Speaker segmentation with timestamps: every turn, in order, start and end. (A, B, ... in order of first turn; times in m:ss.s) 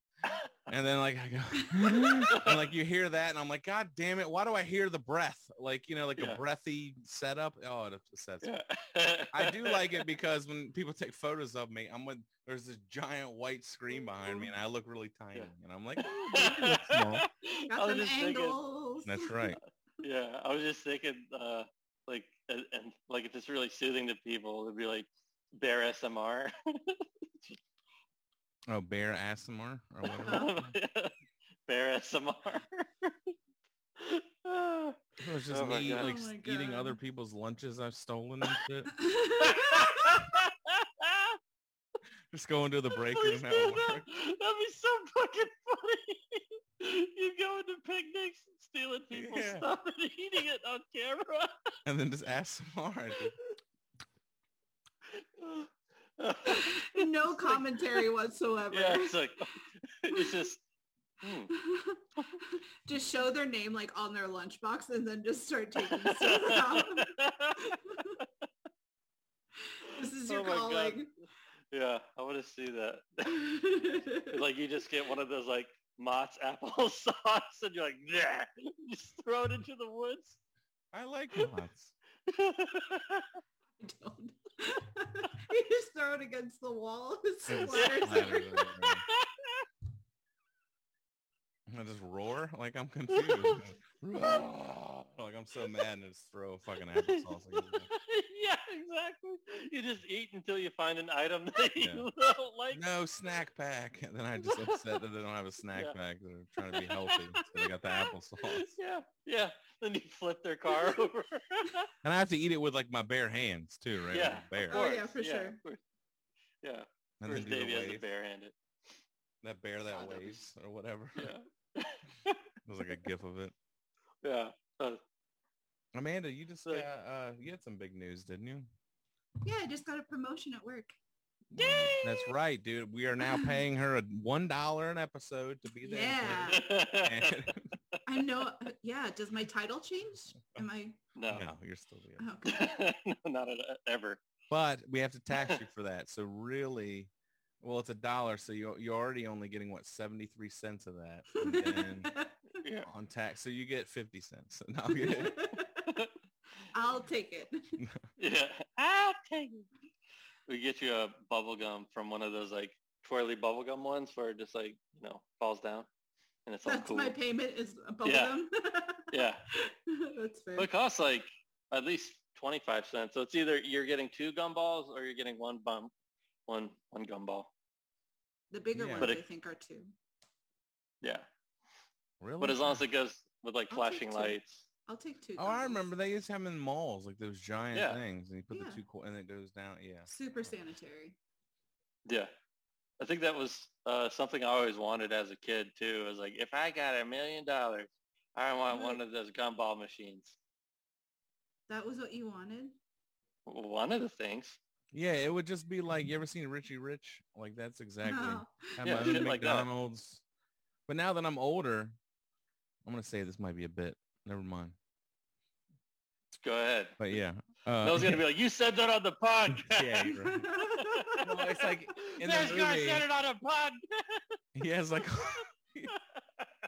0:00.2-0:00.5 A
0:00.7-0:08.5 B
0:01.6-0:02.3 C
0:02.3-0:02.7 A
0:08.4-0:10.1 A
0:09.3-0:17.2 B
0:14.0-0:14.5 C
0:15.3-0:18.6 A
0:16.1-0:16.5 C
0:17.7-0:19.4 C
0:19.0-0:19.6 B
0:20.0-0:27.6 A
0:28.7-0:30.7 B
0:30.0-0:31.1 A
0:30.2-0:30.5 C
0:31.7-0:33.3 A
0:34.0-0:36.1 A
0:35.2-0:38.9 B
0:35.9-0:37.0 C
0:38.9-0:40.2 C
0:39.4-0:41.4 A
0:42.3-0:44.0 B
0:43.0-0:51.5 A
0:49.1-0:49.6 B
0:51.8-0:53.3 B
0:55.1-0:58.1 A
0:56.4-0:59.2 C
0:58.7-1:00.6 A
1:01.2-1:01.5 A
1:01.5-1:08.2 C
1:05.8-1:08.3 A
1:09.7-1:11.1 C
1:09.9-1:11.0 A
1:11.7-1:13.5 A
1:13.3-1:14.4 C
1:14.2-1:20.4 A
1:20.9-1:21.9 B
1:22.3-1:23.3 A
1:23.8-1:28.6 C
1:27.5-1:29.0 B
1:27.7-1:29.7 A
1:31.7-1:37.9 B
1:33.1-1:33.7 A
1:37.0-1:42.8 A
1:41.8-1:42.1 B
1:42.7-1:48.7 B
1:44.4-1:44.9 A
1:46.6-1:51.9 A
1:52.0-1:54.8 B
1:54.1-1:55.8 A
1:54.7-1:55.6 C
1:56.6-1:58.5 A
1:57.2-1:58.0 B
1:59.4-2:01.3 B
2:01.2-2:02.4 A
2:02.6-2:03.5 B
2:04.2-2:05.0 A
2:05.9-2:08.7 B
2:09.4-2:11.0 C
2:11.5-2:17.7 B
2:11.6-2:12.3 A
2:13.2-2:13.6 C
2:15.8-2:16.6 C
2:16.5-2:18.0 A
2:18.0-2:21.0 C
2:21.2-2:21.5 A
2:21.3-2:22.3 B
2:22.2-2:22.7 C
2:22.4-2:24.2 A
2:24.5-2:32.1 B
2:25.3-2:25.6 A
2:31.3-2:32.4 C
2:32.6-2:32.9 A
2:32.8-2:35.5 B
2:34.9-2:36.0 C
2:36.7-2:37.8 C
2:37.8-2:38.0 B
2:38.2-2:39.7 A
2:40.5-2:45.9 A
2:46.4-2:47.2 A
2:46.6-2:50.7 C
2:48.0-2:48.4 A
2:49.1-2:49.4 A
2:50.6-2:55.9 A
2:56.5-2:57.5 A
2:58.5-2:59.9 C
2:58.8-2:59.1 B
3:01.0-3:01.3 A
3:02.2-3:02.8 B
3:02.4-3:04.6 A
3:03.7-3:05.8 C
3:05.4-3:10.1 B
3:07.7-3:08.0 A
3:08.5-3:08.8 C
3:10.1-3:11.2 C
3:12.0-3:12.3 A
3:13.0-3:20.4 A
3:18.7-3:19.0 C
3:21.7-3:22.8 C
3:23.4-3:24.6 A
3:24.9-3:30.2 B
3:28.0-3:29.2 C
3:28.8-3:29.7 A
3:30.9-3:32.0 B
3:32.8-3:34.8 B
3:36.4-3:37.0 A
3:37.0-3:38.2 B
3:37.8-3:40.1 A
3:39.5-3:40.5 B
3:40.1-3:41.2 C
3:40.7-3:44.4 A
3:41.2-3:43.0 B
3:44.5-3:45.9 B
3:45.2-3:46.5 A